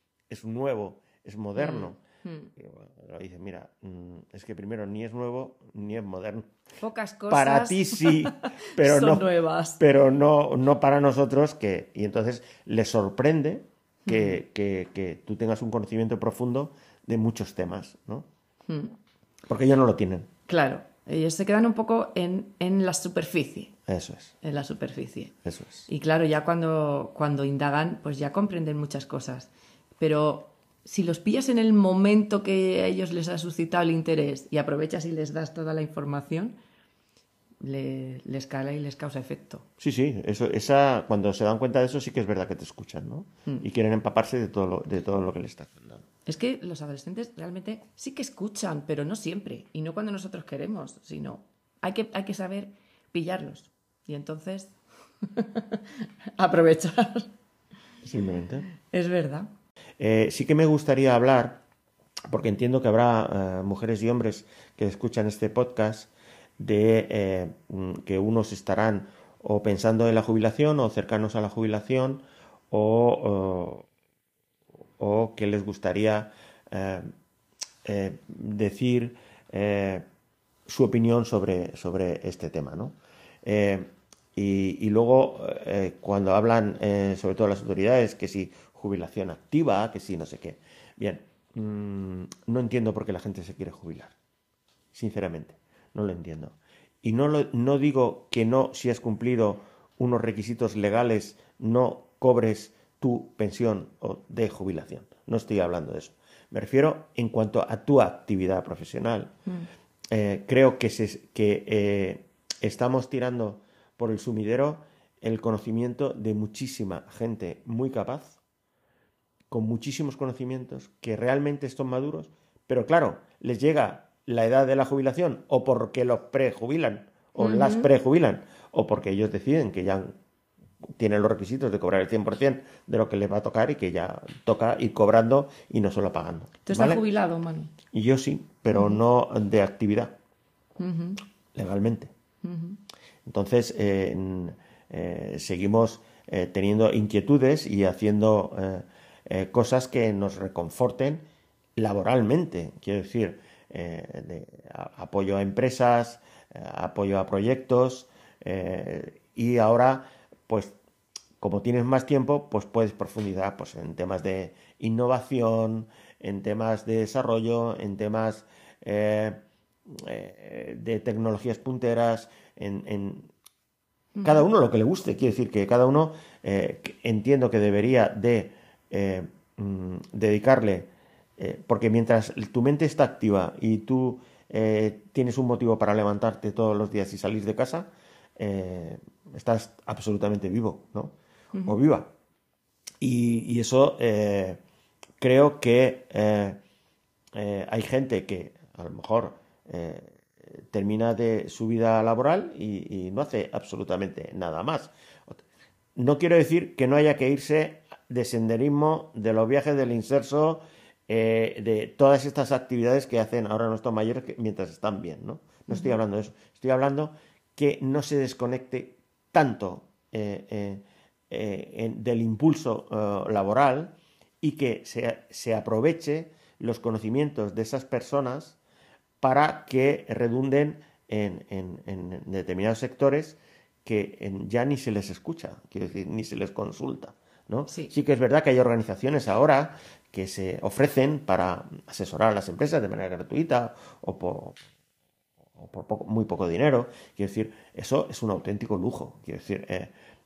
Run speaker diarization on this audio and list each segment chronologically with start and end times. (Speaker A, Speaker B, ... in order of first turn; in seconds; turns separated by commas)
Speaker A: 0.3-2.0, Speaker B: 1.6-2.5, Speaker A: 2.6-6.5, Speaker B: 6.8-9.8, Speaker A: 7.3-18.3, Speaker B: 14.1-14.4, Speaker B: 18.7-19.0, Speaker A: 19.5-20.3, Speaker B: 20.5-23.7, Speaker A: 23.9-24.4, Speaker B: 24.4-25.3, Speaker A: 25.4-25.9, Speaker B: 25.9-36.6, Speaker B: 37.6-39.7, Speaker A: 39.8-46.0, Speaker B: 46.3-57.3, Speaker A: 58.0-58.7, Speaker B: 58.8-59.5, Speaker A: 60.0-61.6, Speaker A: 62.3-73.9, Speaker A: 75.0-77.1, Speaker A: 77.8-80.0, Speaker A: 80.7-94.1, Speaker A: 94.9-109.3, Speaker A: 110.1-118.4, Speaker A: 119.5-130.2, Speaker B: 127.4-127.9, Speaker A: 131.0-137.0, Speaker B: 136.7-137.7, Speaker A: 137.9-140.2, Speaker B: 138.7-139.0, Speaker B: 140.8-141.2, Speaker A: 141.6-142.1, Speaker B: 142.4-142.8, Speaker A: 143.2-151.2, Speaker A: 151.8-160.8, Speaker A: 161.4-173.3, Speaker B: 174.2-174.5, Speaker A: 174.2-192.1, Speaker A: 193.0-194.6, Speaker A: 195.2-196.6, Speaker A: 197.3-205.4, Speaker A: 206.0-228.6, Speaker B: 215.7-216.0, Speaker A: 229.2-244.6, Speaker A: 245.6-249.9